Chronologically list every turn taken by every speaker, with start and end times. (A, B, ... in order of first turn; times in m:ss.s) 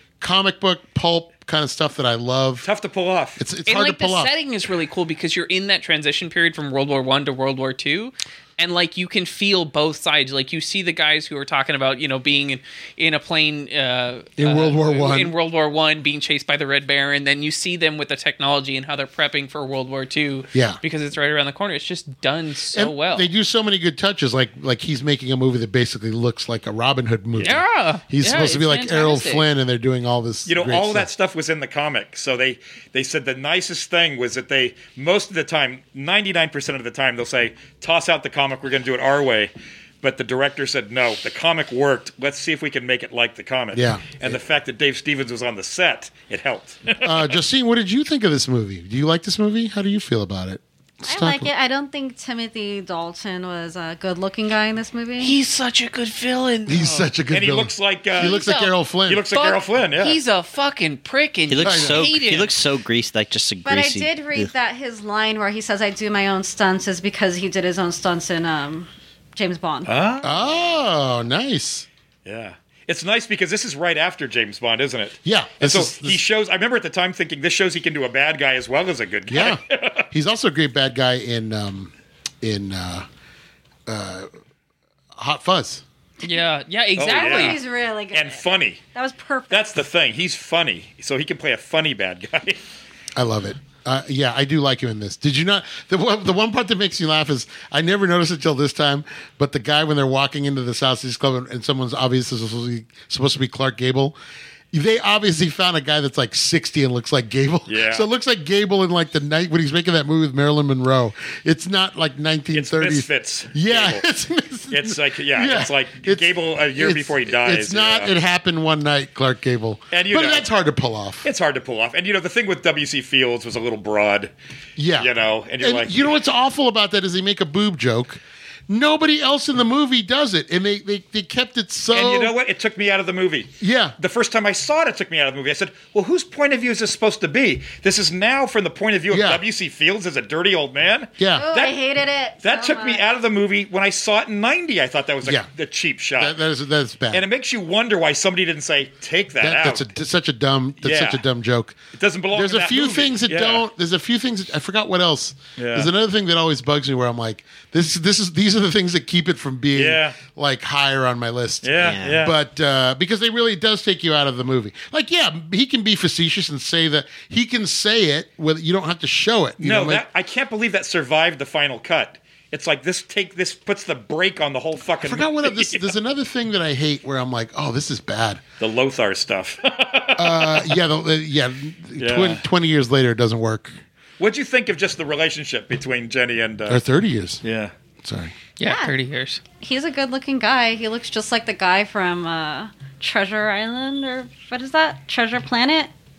0:00.2-0:02.7 A
0:02.6-0:03.4 B
0:03.4-0:04.3 A
0:03.6-0:23.3 C
0:14.4-0:15.3 A
0:20.5-0:20.8 A
0:22.7-0:31.1 A
0:27.4-0:29.4 C
0:30.4-0:47.3 B
0:43.7-0:44.4 A
0:47.0-0:51.5 A
0:51.0-0:55.4 D
0:55.2-0:57.1 C
0:56.6-0:59.2 A
0:57.3-0:58.4 B
0:58.2-0:58.7 C
0:59.1-1:00.2 B
0:59.3-1:02.5 C
1:01.5-1:04.5 E
1:01.6-1:02.1 A
1:03.6-1:09.9 D
1:09.8-1:10.9 B
1:10.2-1:11.8 A
1:12.2-1:20.1 B
1:15.2-1:16.2 A
1:19.3-1:23.0 A
1:23.9-1:24.3 A
1:25.1-1:25.8 A
1:26.2-1:27.6 C
1:27.0-1:28.8 B
1:27.1-1:28.4 D
1:28.9-1:29.8 D
1:29.5-1:32.6 B
1:33.1-1:44.2 A
1:44.7-2:01.3 A
1:47.7-1:48.0 B
1:52.5-1:54.0 B
1:54.7-1:58.1 B
1:59.9-2:00.5 B
2:01.2-2:04.3 B
2:04.8-2:12.3 A
2:05.0-2:06.1 B
2:11.9-2:21.8 B
2:13.6-2:13.9 A
2:19.1-2:19.4 A
2:21.2-2:21.5 A
2:21.3-2:23.0 D
2:22.4-2:26.4 B
2:26.2-2:27.2 A
2:27.1-2:29.9 B
2:29.4-2:31.8 A
2:30.8-2:31.2 B
2:31.9-2:33.6 B
2:32.3-2:50.0 A
2:35.6-2:35.9 B
2:39.7-2:40.2 B
2:41.6-2:42.3 B
2:41.8-2:42.2 E
2:49.6-2:55.9 B
2:55.0-2:58.4 A
2:58.6-3:00.8 B
3:00.2-3:03.8 A
3:02.0-3:02.4 B
3:04.2-3:06.8 B
3:06.7-3:07.4 A
3:07.4-3:07.7 B
3:08.0-3:08.4 A
3:08.6-3:09.4 C
3:08.6-3:08.9 D
3:09.6-3:15.9 D